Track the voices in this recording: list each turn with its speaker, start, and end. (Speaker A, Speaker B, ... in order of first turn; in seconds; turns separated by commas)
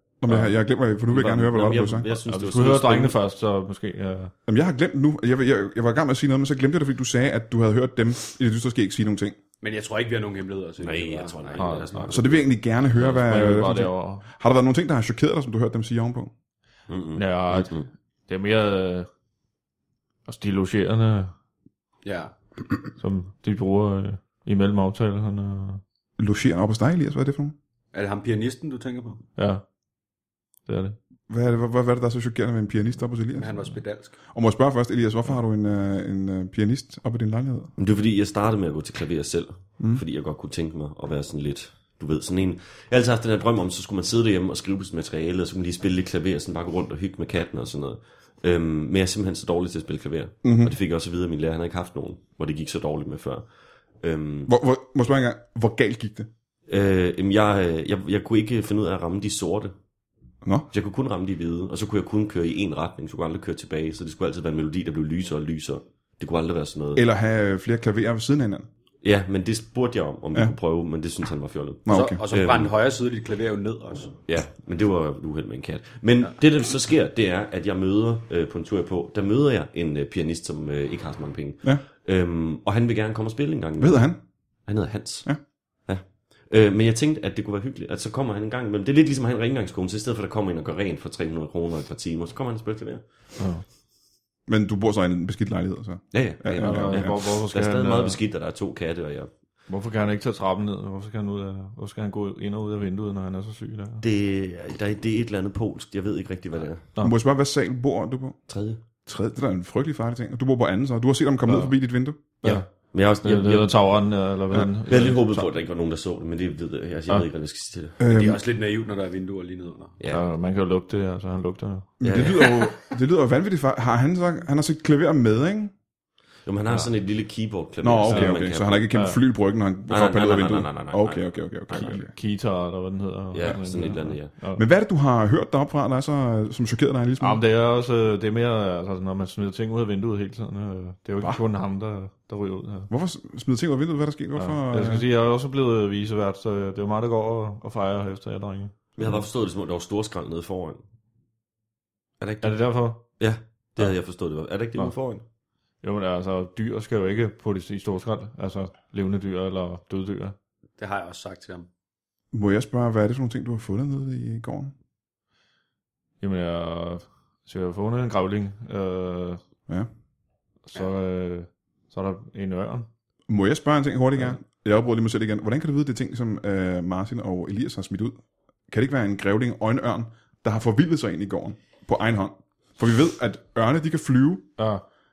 Speaker A: 0.2-2.1, Speaker B: 0.3-0.5, Speaker C: 1.1-3.2, Speaker B: 2.3-4.3, Speaker A: 4.5-9.4, Speaker D: 9.6-12.4, Speaker C: 10.8-12.4, Speaker B: 11.6-12.0, Speaker A: 12.1-16.3, Speaker B: 12.9-14.3, Speaker C: 16.9-17.9, Speaker B: 17.2-19.1, Speaker B: 20.3-21.3, Speaker D: 22.0-22.4, Speaker B: 23.0-25.8, Speaker A: 26.2-27.6, Speaker D: 27.9-29.2, Speaker B: 29.4-29.6, Speaker B: 30.7-31.0, Speaker A: 31.3-33.7, Speaker D: 33.4-34.2, Speaker A: 34.3-37.7, Speaker C: 37.8-53.5, Speaker A: 50.4-50.8, Speaker C: 54.0-54.5, Speaker A: 54.5-56.3, Speaker C: 56.7-59.7, Speaker A: 60.4-60.7, Speaker C: 60.7-67.0, Speaker A: 67.0-68.7, Speaker C: 69.0-72.7, Speaker A: 71.9-72.2, Speaker D: 71.9-74.2, Speaker C: 74.3-84.1, Speaker A: 83.8-84.2, Speaker C: 84.7-93.0, Speaker B: 93.4-93.6, Speaker A: 94.5-97.2, Speaker C: 96.1-99.3, Speaker B: 96.6-98.2, Speaker B: 99.7-104.0, Speaker C: 104.0-106.8, Speaker A: 107.0-108.4, Speaker C: 108.5-108.8, Speaker A: 109.0-112.2, Speaker B: 111.5-111.7, Speaker B: 112.4-112.7, Speaker C: 112.4-113.8, Speaker B: 113.2-115.5, Speaker C: 114.9-118.0, Speaker A: 118.0-118.4, Speaker D: 118.0-120.0, Speaker C: 120.0-120.2, Speaker B: 120.1-122.0, Speaker A: 122.0-125.7, Speaker C: 122.0-122.5, Speaker C: 126.5-128.9, Speaker A: 127.8-132.1, Speaker B: 128.1-128.4, Speaker B: 128.9-129.2, Speaker C: 129.9-132.0, Speaker B: 131.7-134.6, Speaker C: 133.3-134.3, Speaker A: 134.6-137.4, Speaker B: 137.2-142.9, Speaker A: 142.9-145.1, Speaker B: 144.4-149.2, Speaker C: 149.0-150.8, Speaker C: 152.2-155.2, Speaker B: 152.4-153.2, Speaker B: 155.8-160.4, Speaker D: 160.8-161.7, Speaker A: 162.3-164.7, Speaker B: 166.2-169.4, Speaker B: 170.7-172.9, Speaker A: 173.3-178.2, Speaker A: 178.7-184.6, Speaker B: 184.6-184.8